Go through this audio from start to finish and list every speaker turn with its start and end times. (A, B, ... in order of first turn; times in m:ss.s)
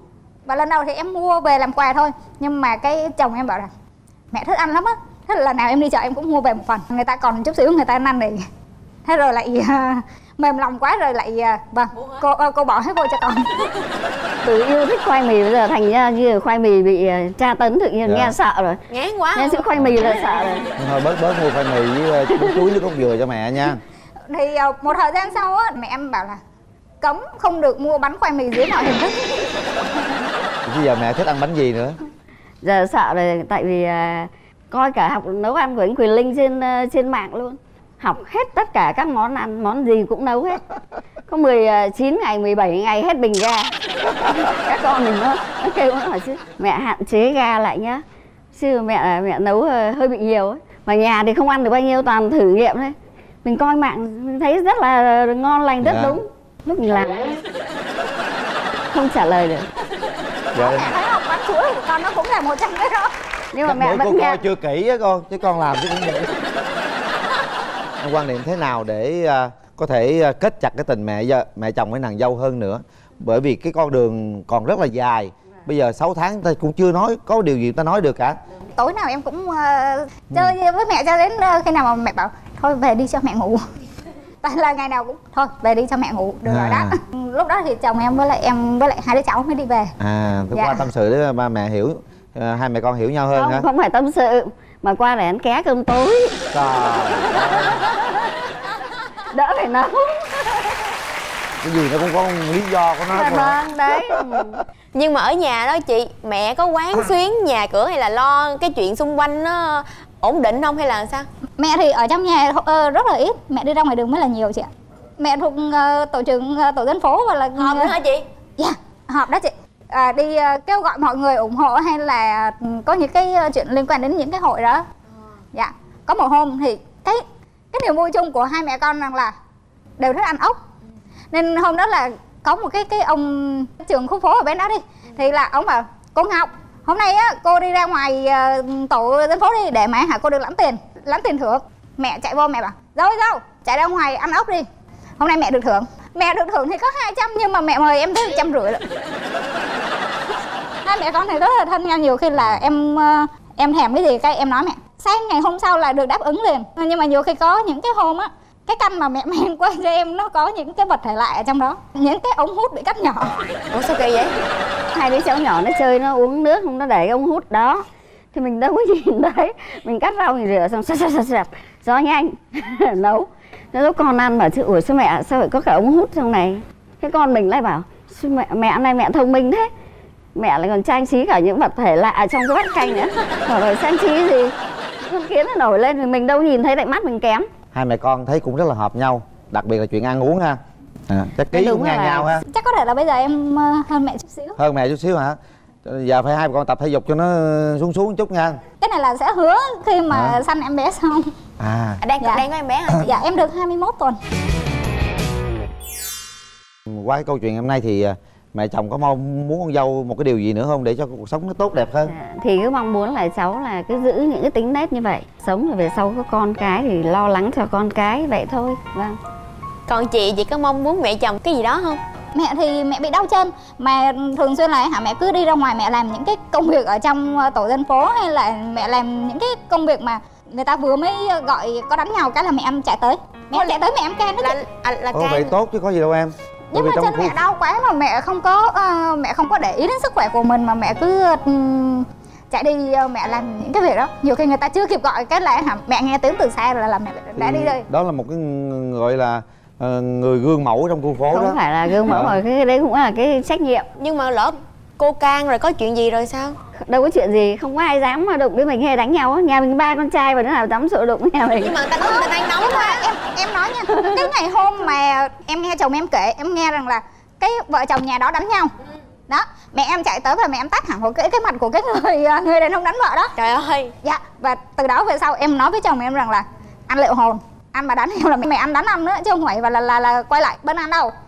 0:00.5-0:03.7 A
0:04.3-0:08.4 A
0:09.0-0:13.5 A
0:14.4-0:18.8 B
0:18.1-0:18.3 C
0:18.9-0:19.6 D
0:19.3-0:20.7 B
0:20.8-0:23.8 C
0:22.3-0:22.7 B
0:24.3-0:26.4 A
0:27.0-0:29.2 A
0:30.6-0:32.0 C
0:32.6-0:40.6 B
0:41.3-0:57.3 B
0:55.8-0:56.2 C
0:58.9-0:59.7 B
1:00.5-1:00.9 C
1:00.5-1:03.1 A
1:03.5-1:04.4 B
1:03.6-1:06.4 C
1:08.0-1:18.4 C
1:18.8-1:23.6 A
1:24.4-1:29.9 A
1:26.4-1:26.9 C
1:30.0-1:33.7 C
1:30.5-1:30.9 A
1:33.3-1:36.4 B
1:36.5-1:37.9 C
1:37.2-1:38.1 B
1:39.3-1:40.9 B
1:41.6-1:44.2 C
1:43.1-1:44.6 B
1:44.9-1:51.3 D
1:51.6-1:57.9 A
1:57.6-1:58.2 D
1:58.6-2:04.8 A
2:05.5-2:09.3 A
2:10.0-2:10.6 A
2:11.3-2:24.7 A
2:25.2-2:28.8 A
2:30.8-2:43.3 A
2:43.7-2:44.4 D
2:44.9-2:59.7 B
3:00.4-3:07.5 B
3:07.7-3:12.4 C
3:11.5-3:12.4 B
3:12.5-3:14.6 A
3:14.6-3:18.6 C
3:18.8-3:21.3 A
3:20.1-3:20.4 C
3:21.6-3:22.0 C
3:22.0-3:23.1 D
3:23.0-3:24.2 A
3:26.9-3:32.1 C
3:32.0-3:39.2 B
3:39.9-3:42.0 D
3:42.3-3:54.6 A
3:54.4-3:55.5 D
3:55.1-3:57.4 C
3:56.7-4:07.8 A
4:07.4-4:12.4 C
4:11.3-4:13.9 B
4:14.0-4:16.6 D
4:16.8-4:21.8 B
4:21.6-4:23.1 D
4:22.0-4:28.7 A
4:29.3-4:33.3 A
4:33.4-4:33.9 D
4:34.0-4:41.1 A